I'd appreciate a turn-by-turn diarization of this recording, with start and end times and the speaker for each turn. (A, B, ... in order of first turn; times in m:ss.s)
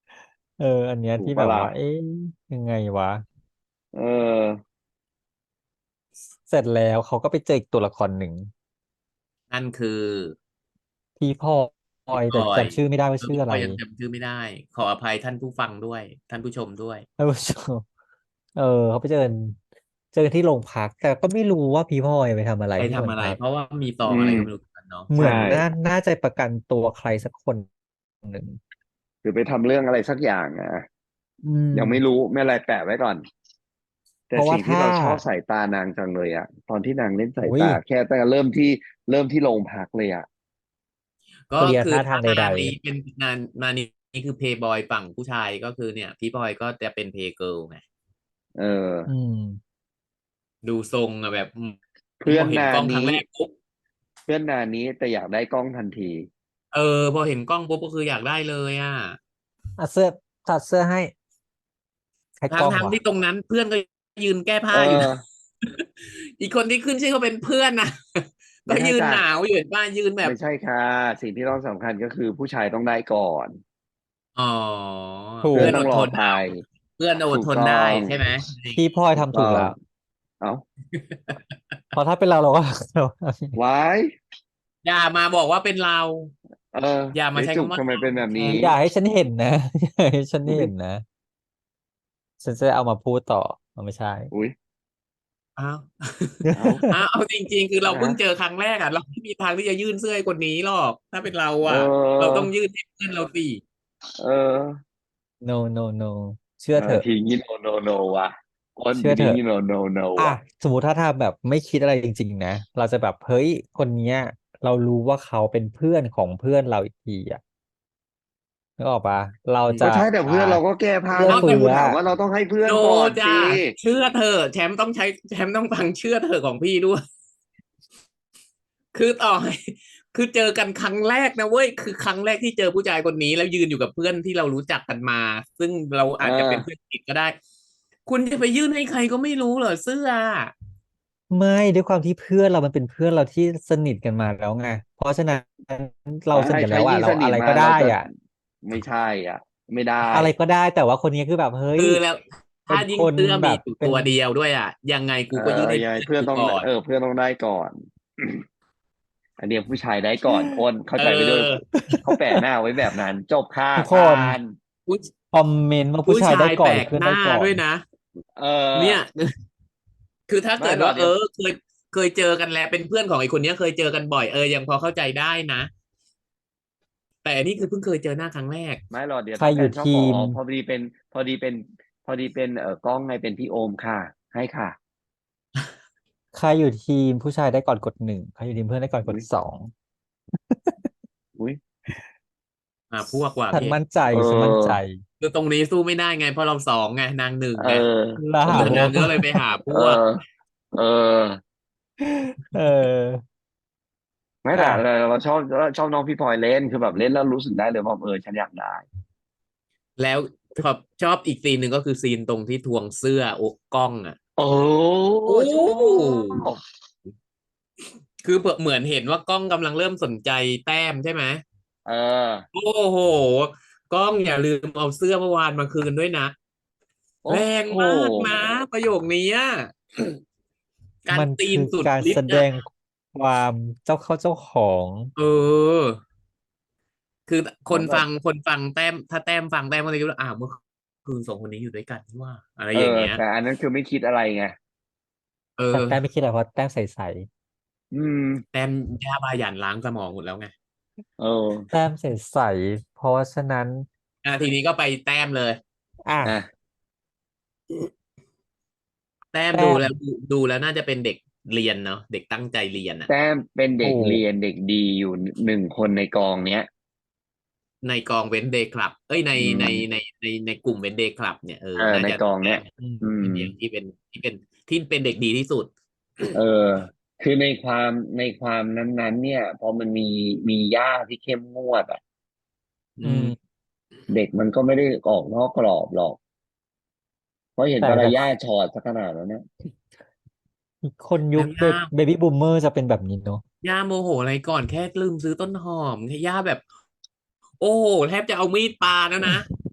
0:00.6-0:03.2 A
0:01.2-0:01.7 B
0:03.9-0:04.6 B
0:06.4-0:08.5 A
0:09.5-0:10.3 C
0:11.2-0:13.8 A
0:12.3-0:17.0 C
0:17.2-0:17.8 A
0:18.6-0:19.6 A
0:20.1-0:23.4 A
0:22.8-0:25.1 C
0:24.0-0:24.5 B
0:25.1-0:27.7 A
0:25.2-0:25.6 B
0:28.2-0:28.6 A
0:29.2-0:30.8 B
0:31.4-0:32.0 A
0:31.7-0:33.2 B
0:34.3-0:40.2 B
0:34.4-0:35.2 A
0:37.4-0:37.8 A
0:41.5-0:47.8 C
0:41.6-0:42.7 A
0:48.6-0:49.1 B
0:49.1-0:49.6 A
0:50.6-0:53.5 C
0:52.2-0:53.2 B
0:54.3-0:56.3 B
0:56.7-0:59.2 C
0:59.8-1:01.1 A
1:02.4-1:03.0 A
1:02.5-1:05.1 C
1:04.7-1:05.2 B
1:05.6-1:10.3 C
1:08.7-1:09.2 B
1:10.2-1:13.6 B
1:14.4-1:18.8 C
1:15.4-1:15.8 A
1:15.5-1:16.6 B
1:17.3-1:18.2 B
1:18.7-1:19.7 A
1:19.2-1:19.8 B
1:20.9-1:21.7 C
1:21.9-1:23.6 A
1:23.5-1:24.1 B
1:24.8-1:26.3 C
1:26.7-1:28.7 B
1:27.1-1:28.2 C
1:28.4-1:31.0 A
1:32.4-1:34.3 A
1:35.6-1:43.6 C
1:36.4-1:37.0 A
1:36.6-1:36.8 B
1:37.8-1:38.2 B
1:41.6-1:42.5 B
1:44.2-1:44.8 B
1:45.4-1:47.0 A
1:46.8-1:50.3 B
1:48.9-1:49.4 A
1:50.2-1:57.4 A
1:58.8-2:00.6 A
1:59.8-2:03.7 B
2:01.1-2:02.0 A
2:01.2-2:01.8 C
2:02.6-2:07.0 C
2:08.9-2:17.4 C
2:16.2-2:16.6 B
2:18.0-2:20.5 C
2:21.3-2:28.1 A
2:26.3-2:28.1 B
2:28.6-2:30.3 B
2:30.1-2:32.0 A
2:31.8-2:36.7 C
2:32.7-2:34.2 A
2:35.3-2:38.4 B
2:39.4-2:44.6 B
2:41.0-2:41.6 C
2:41.8-2:42.0 A
2:43.8-2:44.4 A
2:44.8-2:45.1 C
2:45.3-2:47.6 A
2:46.0-2:47.8 C
2:48.4-2:49.0 B
2:48.7-2:49.3 C
2:50.3-2:55.7 C
2:50.6-2:51.1 B
2:57.2-2:58.8 C
2:58.9-3:04.8 B
2:59.4-3:00.4 A
3:06.3-3:09.7 A
3:10.4-3:10.9 A
3:12.9-3:13.8 C
3:13.5-3:15.0 A
3:14.1-3:14.8 B
3:15.2-3:17.8 C
3:17.6-3:18.9 B
3:18.2-3:19.4 A
3:18.5-3:20.0 C
3:19.7-3:20.2 B
3:20.7-3:21.4 B
3:22.0-3:23.2 A
3:24.4-3:28.8 B
3:24.5-3:24.8 A
3:30.0-3:34.2 C
3:34.4-3:36.6 B
3:35.2-3:36.4 C
3:38.2-3:41.4 C
3:41.8-3:42.4 B
3:42.5-3:46.3 C
3:47.2-3:48.4 B
3:47.3-3:49.7 C
3:51.0-3:52.5 C
3:51.1-3:55.1 A
3:55.2-3:56.0 C
3:57.3-4:03.2 C
3:57.7-3:58.0 B
4:02.7-4:04.5 B
4:05.6-4:06.0 C
4:05.7-4:07.3 A
4:07.9-4:08.4 B
4:08.5-4:10.5 C
4:11.2-4:11.7 B
4:11.7-4:13.9 A
4:14.2-4:15.6 C
4:16.0-4:16.4 A
4:19.3-4:23.1 C
4:19.5-4:19.9 A
4:23.1-4:26.7 B
4:23.8-4:24.2 A
4:27.8-4:32.7 C
4:29.4-4:29.8 B
4:31.8-4:33.5 B
4:33.2-4:36.3 C
4:36.3-4:42.0 B
4:43.0-4:43.3 C
4:43.0-4:43.3 A
4:44.1-4:46.2 B
4:47.6-4:49.4 B
4:47.8-4:48.2 A
4:50.8-4:53.4 A
4:51.4-4:51.9 C
4:53.6-4:56.6 C
4:57.6-4:59.5 C